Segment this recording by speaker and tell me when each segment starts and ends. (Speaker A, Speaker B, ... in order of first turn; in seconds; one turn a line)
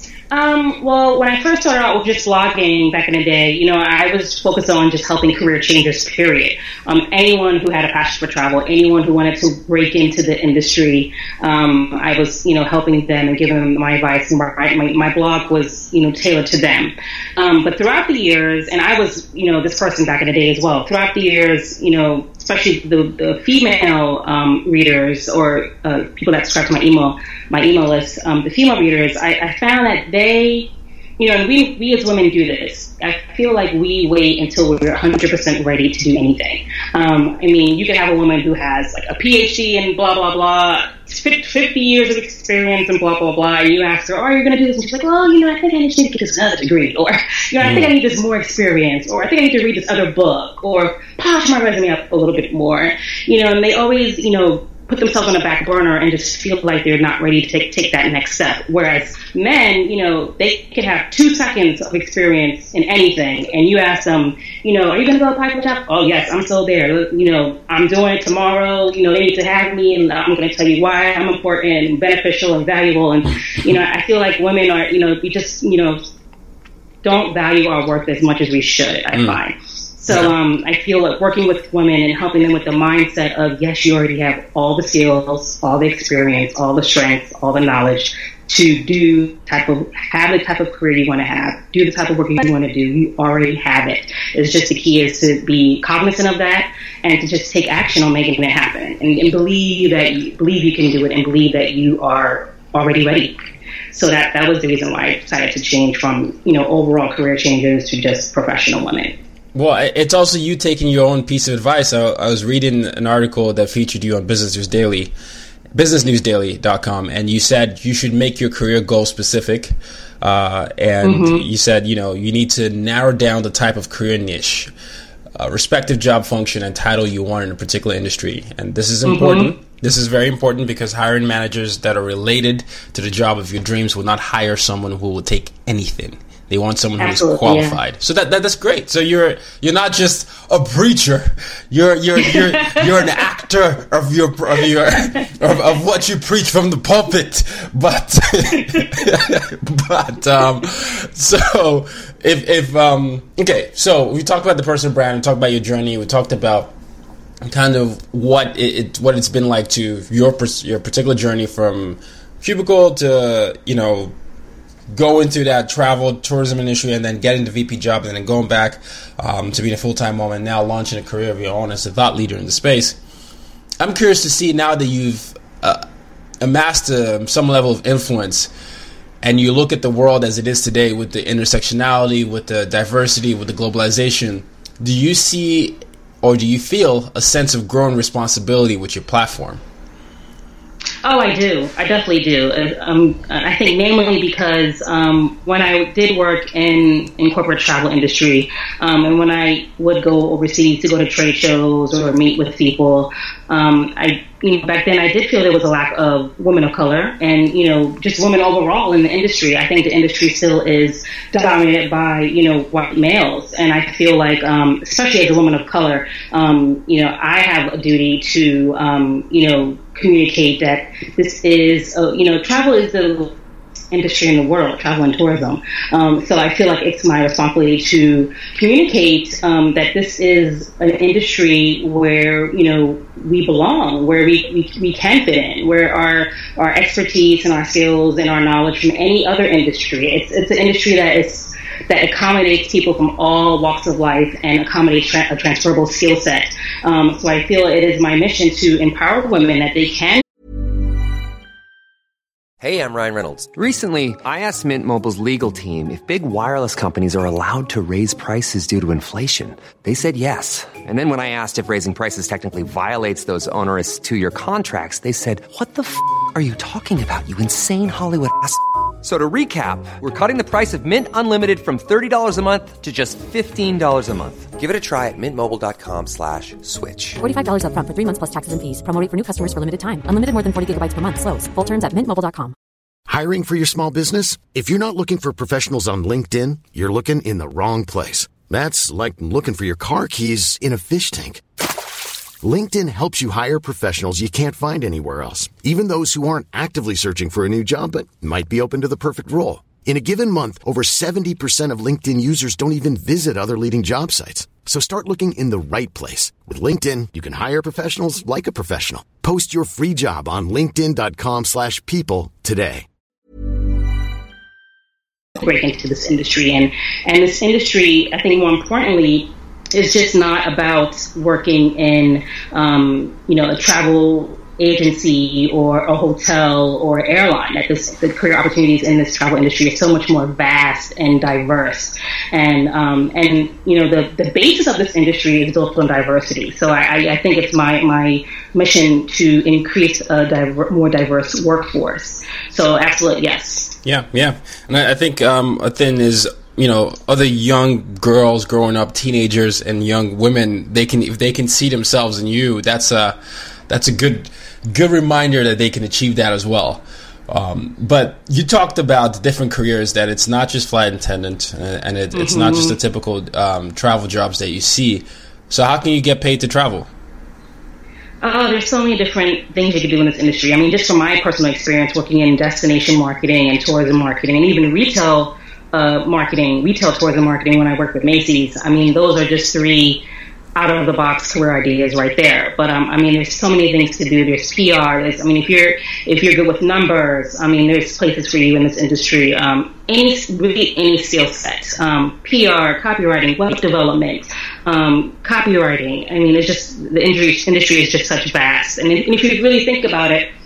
Speaker A: 0.3-76.0
Speaker B: 47.6-47.9
Speaker A: 77.0-103.4
Speaker B: 79.1-79.4
Speaker B: 80.1-80.3
Speaker A: 103.9-109.2
Speaker B: 109.5-115.1
Speaker B: 115.7-124.7
Speaker A: 121.0-121.4
Speaker B: 125.3-156.7
Speaker A: 129.0-129.5
Speaker A: 137.0-137.8
Speaker A: 142.3-142.8
Speaker B: 157.4-164.1
Speaker B: 164.9-173.0
Speaker B: 173.8-175.8
Speaker B: 176.4-178.5
Speaker B: 179.2-189.6
Speaker A: 191.0-223.3
Speaker A: 223.9-250.2
Speaker C: 252.6-277.2
Speaker D: 277.2-282.5
Speaker E: 283.1-291.4
Speaker E: 292.4-312.9
Speaker A: 315.4-343.7
Speaker B: 343.8-353.2
Speaker B: 353.7-366.9
Speaker A: 362.1-362.8
Speaker A: 368.2-380.0
Speaker A: 380.6-400.3